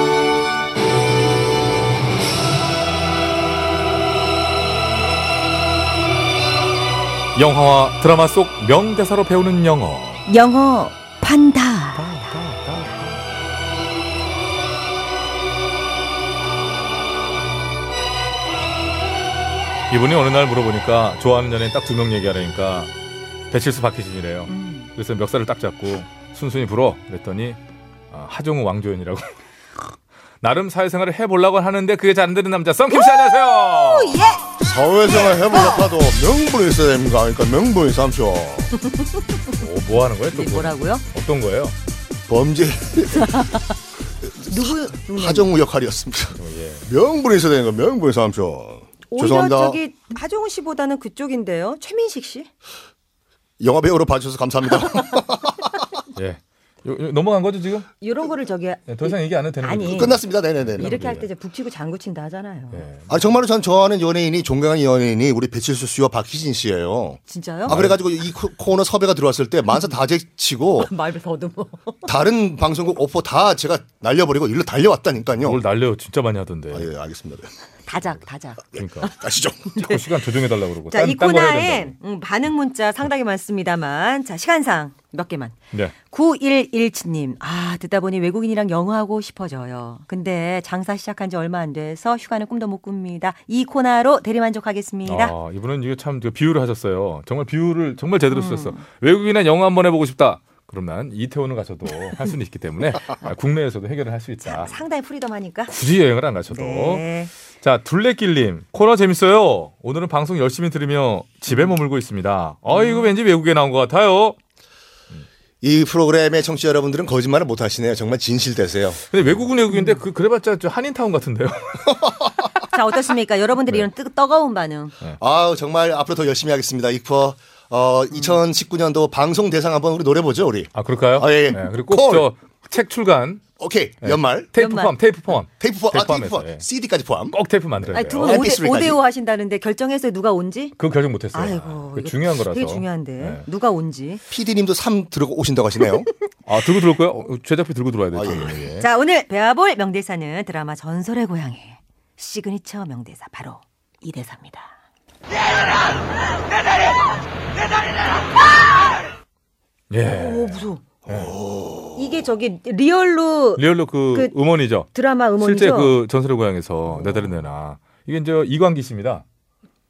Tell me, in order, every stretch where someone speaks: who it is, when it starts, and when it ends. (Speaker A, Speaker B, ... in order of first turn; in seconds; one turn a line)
Speaker A: 7.3-10.2
Speaker B: 10.2-12.2
Speaker A: 11.9-13.1
Speaker A: 19.9-22.9
Speaker A: 23.5-27.6
Speaker B: 24.5-24.9
Speaker A: 28.1-29.9
Speaker A: 30.4-34.2
Speaker B: 33.8-34.5
Speaker C: 34.6-38.7
Speaker A: 39.6-41.8
Speaker B: 40.3-41.0
Speaker C: 42.3-43.5
Speaker B: 43.2-43.6
Speaker C: 44.2-49.8
Speaker B: 44.5-45.5
Speaker A: 46.3-46.9
Speaker B: 49.1-52.5
Speaker C: 53.6-55.9
Speaker A: 56.1-57.9
Speaker B: 58.0-62.9
Speaker A: 58.9-61.3
Speaker C: 59.9-61.0
Speaker A: 62.7-63.2
Speaker C: 63.1-70.9
Speaker B: 67.3-67.8
Speaker A: 67.7-67.9
Speaker B: 70.8-72.0
Speaker C: 72.0-75.6
Speaker A: 75.4-76.9
Speaker C: 76.7-77.5
Speaker B: 77.9-78.7
Speaker C: 78.7-79.7
Speaker A: 78.8-79.1
Speaker A: 79.7-82.0
Speaker B: 79.8-80.0
Speaker B: 80.9-95.3
Speaker A: 95.0-104.8
Speaker B: 98.3-98.8
Speaker B: 104.4-105.7
Speaker A: 105.7-114.4
Speaker B: 106.5-107.3
Speaker B: 112.7-113.1
Speaker C: 115.6-119.0
Speaker A: 119.1-122.2
Speaker B: 122.7-125.0
Speaker C: 125.2-132.3
Speaker B: 128.1-128.4
Speaker A: 130.7-133.4
Speaker C: 133.6-134.5
Speaker A: 134.0-136.6
Speaker B: 134.6-134.9
Speaker C: 135.6-137.4
Speaker A: 137.3-138.4
Speaker B: 137.9-140.8
Speaker C: 138.2-139.0
Speaker A: 140.8-143.4
Speaker B: 141.3-144.2
Speaker C: 144.3-146.1
Speaker A: 146.5-148.7
Speaker C: 148.1-148.9
Speaker B: 148.8-154.7
Speaker A: 159.9-161.3
Speaker B: 160.1-160.8
Speaker C: 161.1-162.1
Speaker B: 161.9-164.3
Speaker A: 163.6-169.2
Speaker B: 164.9-166.0
Speaker B: 166.9-167.3